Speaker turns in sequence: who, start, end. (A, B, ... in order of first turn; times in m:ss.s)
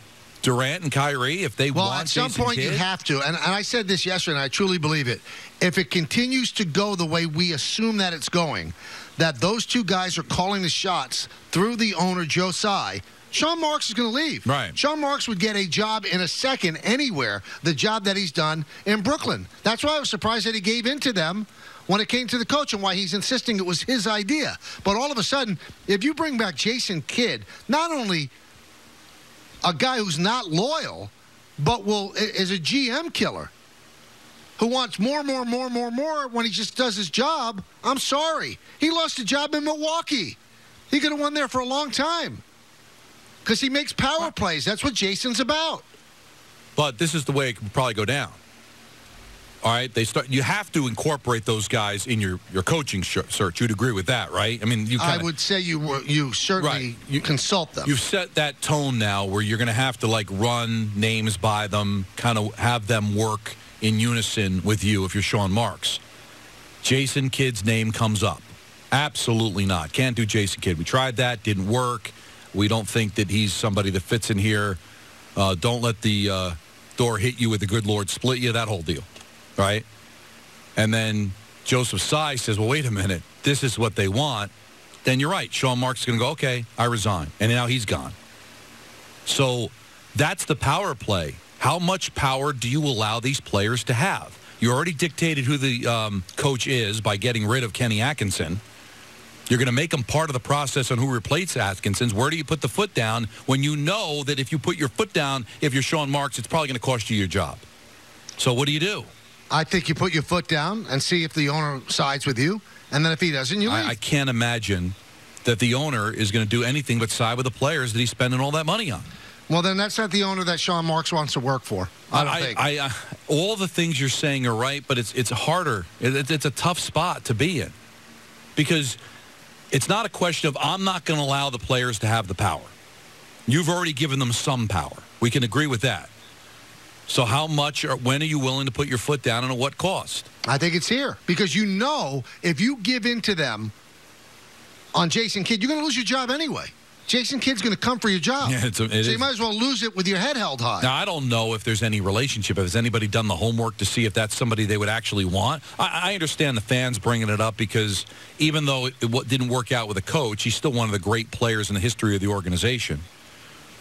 0:00.4-0:02.8 A
0:01.7-0:28.3 B
0:14.5-0:14.8 A
0:29.6-0:33.5 B
0:34.6-0:40.4 B
0:40.9-0:42.4 B
0:43.4-0:45.8 B
0:46.8-0:48.4 A
0:49.6-0:55.3 A
0:55.0-0:57.9 B
0:56.6-0:56.9 A
0:57.8-1:06.0 A
1:06.8-1:14.8 A
1:15.4-1:19.1 A
1:19.6-1:19.8 A
1:20.8-1:24.5 A
1:25.0-1:28.2 A
1:29.3-1:38.6 A
1:39.5-1:47.6 A
1:48.4-1:49.1 A
1:49.5-1:54.0 B
1:53.7-1:59.1 A
1:59.5-2:02.6 B
2:02.1-2:07.7 A
2:08.6-2:09.0 A
2:09.7-2:12.7 A
2:13.5-2:16.1 A
2:17.1-2:20.3 A
2:20.4-2:23.7 B
2:25.0-2:30.9 B
2:28.4-2:29.3 A
2:30.8-2:43.0 A